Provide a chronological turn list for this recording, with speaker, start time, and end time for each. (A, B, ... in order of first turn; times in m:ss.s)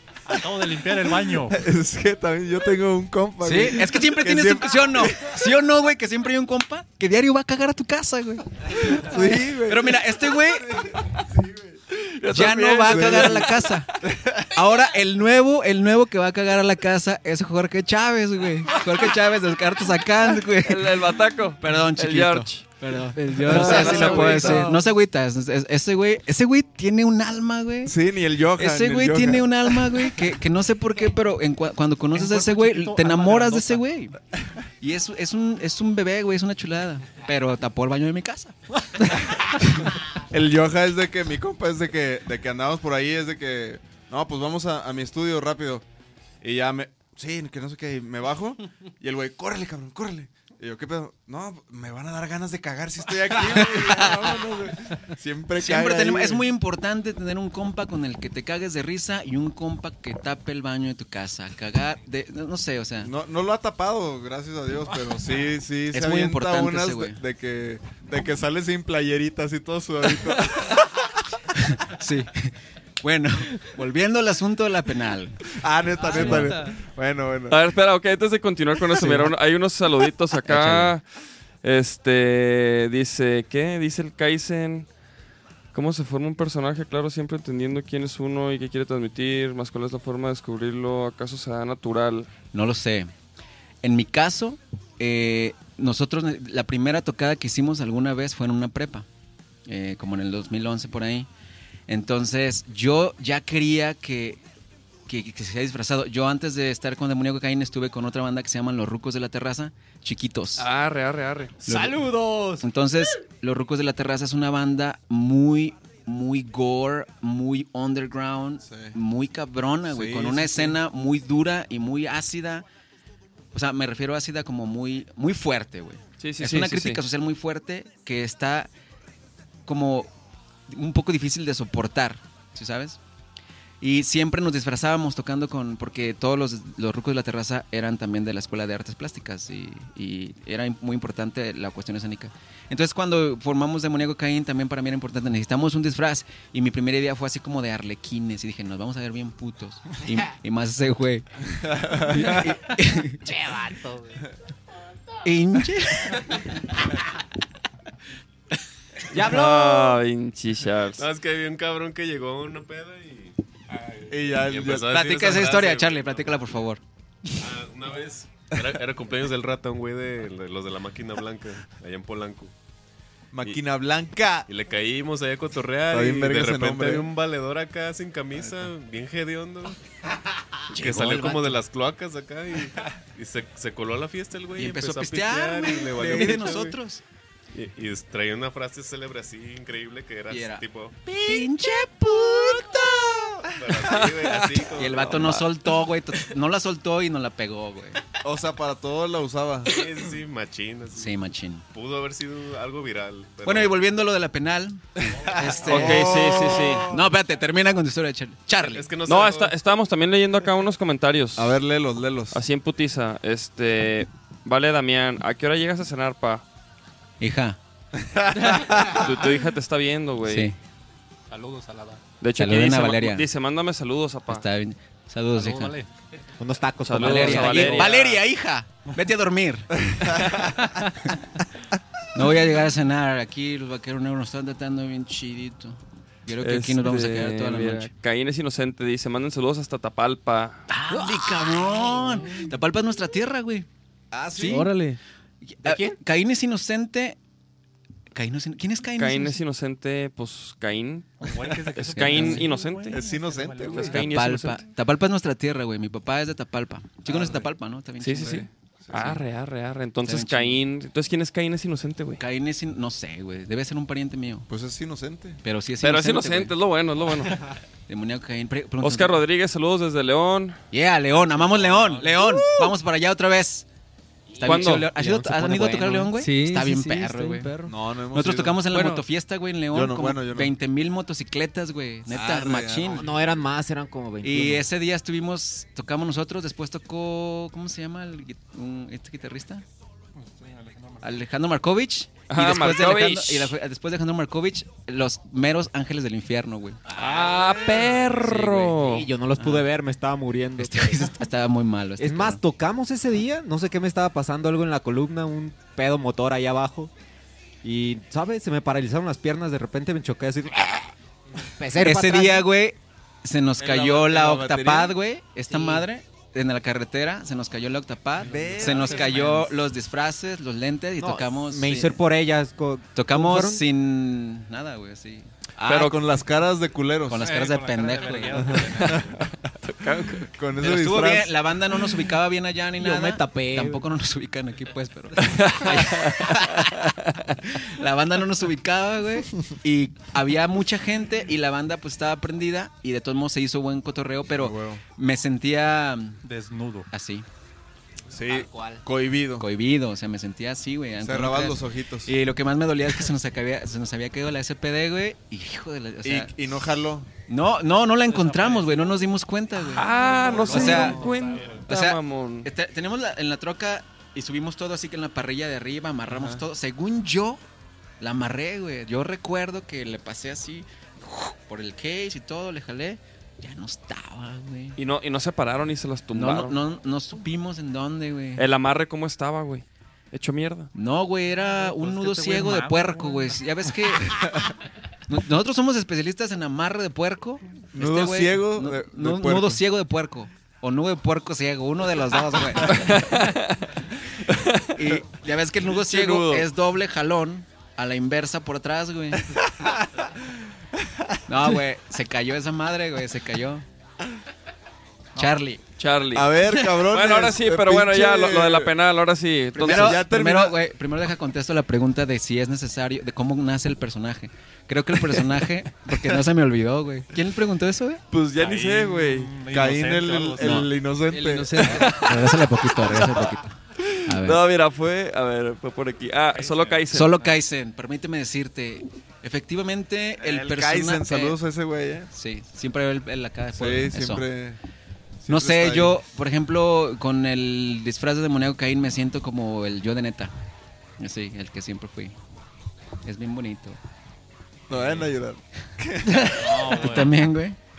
0:00.3-0:01.6 A
0:01.5-0:05.4 B
0:03.4-0:10.9 C
0:08.8-0:11.8 B
0:12.0-0:13.8 D
0:12.3-0:13.9 C
0:12.9-0:13.5 B
0:14.0-0:14.5 B
0:14.4-0:28.0 C
0:20.4-0:22.6 D
0:23.2-0:24.8 E
0:23.4-0:24.7 D
0:27.8-0:30.0 B
0:28.6-0:34.2 C
0:32.1-0:33.8 A
0:34.8-0:39.9 C
0:40.3-0:45.8 B
0:46.4-0:56.5 B
0:53.5-0:54.4 C
0:55.6-1:03.1 C
1:03.0-1:11.0 B
1:05.9-1:07.2 C
1:11.6-1:15.4 C
1:15.5-1:17.6 B
1:16.0-1:16.5 C
1:16.1-1:16.7 E
1:17.5-1:21.0 D
1:19.0-1:19.3 C
1:20.4-1:20.9 C
1:21.6-1:24.9 D
1:25.7-1:32.3 D
1:32.5-1:33.1 C
1:33.8-1:39.1 C
1:39.7-1:41.3 C
1:41.9-1:44.4 C
1:45.1-1:50.7 C
1:50.6-1:51.6 D
1:51.6-1:52.0 C
1:51.6-1:52.6 F
1:52.6-2:02.7 C
1:58.6-1:58.9 B
1:59.9-2:00.8 B
2:03.5-2:08.7 C
2:06.2-2:07.0 D
2:09.7-2:10.1 C
2:10.7-2:13.0 C
2:13.8-2:33.3 C
2:31.7-2:32.5 B
2:33.2-2:34.2 F
2:35.2-2:36.4 C
2:39.1-2:40.0 F
2:39.1-2:41.1 D
2:41.0-2:46.6 G
2:44.1-2:45.0 B
2:44.8-2:46.8 C
2:47.4-2:52.5 G
2:53.3-2:54.5 B
2:54.5-2:59.8 G
2:55.9-2:57.1 B
3:00.7-3:06.8 G
3:00.7-3:01.6 C
3:04.6-3:07.0 C
3:07.5-3:11.0 G
3:10.3-3:13.5 C
3:13.6-3:15.3 G
3:14.0-3:15.5 D
3:14.7-3:18.0 C
3:18.2-3:19.8 B
3:19.6-3:21.2 G
3:20.9-3:21.6 C
3:21.7-3:23.8 G
3:23.4-3:28.9 C
3:25.0-3:27.0 B
3:25.2-3:25.9 A
3:25.6-3:26.9 D
3:28.7-3:29.5 G
3:29.1-3:31.6 D
3:31.4-3:32.4 B
3:32.3-3:36.4 D
3:37.2-3:37.6 C
3:38.0-3:39.1 B
3:38.7-3:40.5 D
3:40.2-3:40.6 C
3:41.3-3:42.0 A
3:42.2-3:44.4 D
3:42.4-3:43.3 C
3:44.3-3:45.8 C
3:45.3-3:45.9 A
3:46.4-3:47.9 F
3:46.8-3:48.0 D
3:47.0-3:50.3 C
3:47.5-3:48.2 A
3:49.9-3:50.6 B
3:52.1-3:57.9 C
3:56.4-4:00.7 D
4:00.7-4:03.7 C
4:00.9-4:01.2 F
4:04.3-4:04.6 F
4:04.3-4:04.7 C
4:04.4-4:05.0 E
4:05.4-4:07.2 C
4:05.6-4:06.0 F
4:08.1-4:09.4 C
4:09.0-4:13.0 D
4:11.2-4:14.0 A
4:12.0-4:12.5 C
4:12.9-4:14.0 B
4:13.7-4:14.6 D
4:13.9-4:18.5 C
4:17.1-4:17.4 B
4:18.0-4:22.2 D
4:18.8-4:19.2 B
4:20.0-4:20.6 C
4:22.2-4:24.5 C
4:24.5-4:25.4 B
4:25.4-4:26.6 C
4:25.8-4:27.4 D
4:27.9-4:29.2 C
4:28.8-4:30.6 D
4:30.7-4:33.7 C
4:31.4-4:32.3 A
4:34.3-4:35.6 F
4:34.4-4:37.5 C
4:34.4-4:34.9 D
4:35.2-4:37.8 E
4:37.6-4:38.6 B
4:38.1-4:43.1 C
4:38.7-4:39.0 E
4:39.7-4:40.5 B
4:42.1-4:43.2 B
4:42.8-4:44.6 F
4:44.2-4:49.6 C
4:50.2-4:51.2 A
4:51.0-4:56.8 C
4:52.3-4:53.6 D
4:56.9-4:57.7 F
4:57.0-4:59.1 D
4:57.4-4:57.9 B
4:58.1-4:58.8 C
4:58.8-5:01.1 F
4:59.4-4:59.7 C
5:00.6-5:02.4 C
5:02.0-5:06.9 F
5:07.6-5:10.9 F
5:11.6-5:12.5 F
5:11.8-5:22.0 C
5:13.6-5:14.9 B
5:15.5-5:15.8 F
5:18.2-5:19.3 B
5:18.4-5:19.5 A
5:21.0-5:23.6 F
5:23.0-5:25.3 C
5:25.6-5:26.0 D
5:25.6-5:27.3 B
5:27.1-5:28.7 C
5:27.1-5:29.3 A
5:28.8-5:30.4 D
5:30.4-5:31.4 B
5:30.6-5:46.2 C
5:32.8-5:33.9 F
5:35.2-5:37.3 D
5:44.4-5:44.8 B
5:46.2-5:46.9 A
5:46.9-5:47.3 C
5:48.1-5:49.5 B
5:48.2-5:48.8 F
5:49.4-5:56.3 C
5:51.0-5:52.1 B
5:56.0-5:57.1 B
5:57.3-6:01.2 C
5:58.1-5:59.1 A
5:59.6-6:02.5 D
5:59.8-6:01.7 A
6:01.7-6:07.4 C
6:06.1-6:06.4 B
6:08.0-6:14.8 C
6:14.8-6:16.6 D
6:16.1-6:18.5 C
6:18.4-6:20.7 D
6:20.8-6:24.3 C
6:21.4-6:23.4 A
6:25.1-6:33.0 C
6:27.7-6:29.6 B
6:32.7-6:34.8 D
6:34.7-6:39.3 C
6:35.9-6:36.4 D
6:39.6-6:40.1 B
6:41.3-6:43.6 C
6:45.2-6:45.6 C
6:45.8-6:50.0 D
6:46.1-6:48.7 B
6:49.6-6:58.0 C
6:49.6-6:50.6 B
6:58.1-7:01.8 B
6:58.4-7:00.7 A
7:00.4-7:00.7 C
7:01.1-7:02.0 E
7:01.6-7:07.1 D
7:01.8-7:04.4 C
7:06.3-7:07.3 A
7:06.9-7:11.4 C
7:10.2-7:12.1 B
7:12.1-7:14.3 C
7:13.5-7:14.6 B
7:15.2-7:16.0 B
7:15.3-7:20.3 C
7:21.0-7:22.1 C
7:23.0-7:23.8 C
7:24.7-7:26.7 B
7:24.7-7:25.1 A
7:26.1-7:27.6 C
7:26.4-7:27.3 A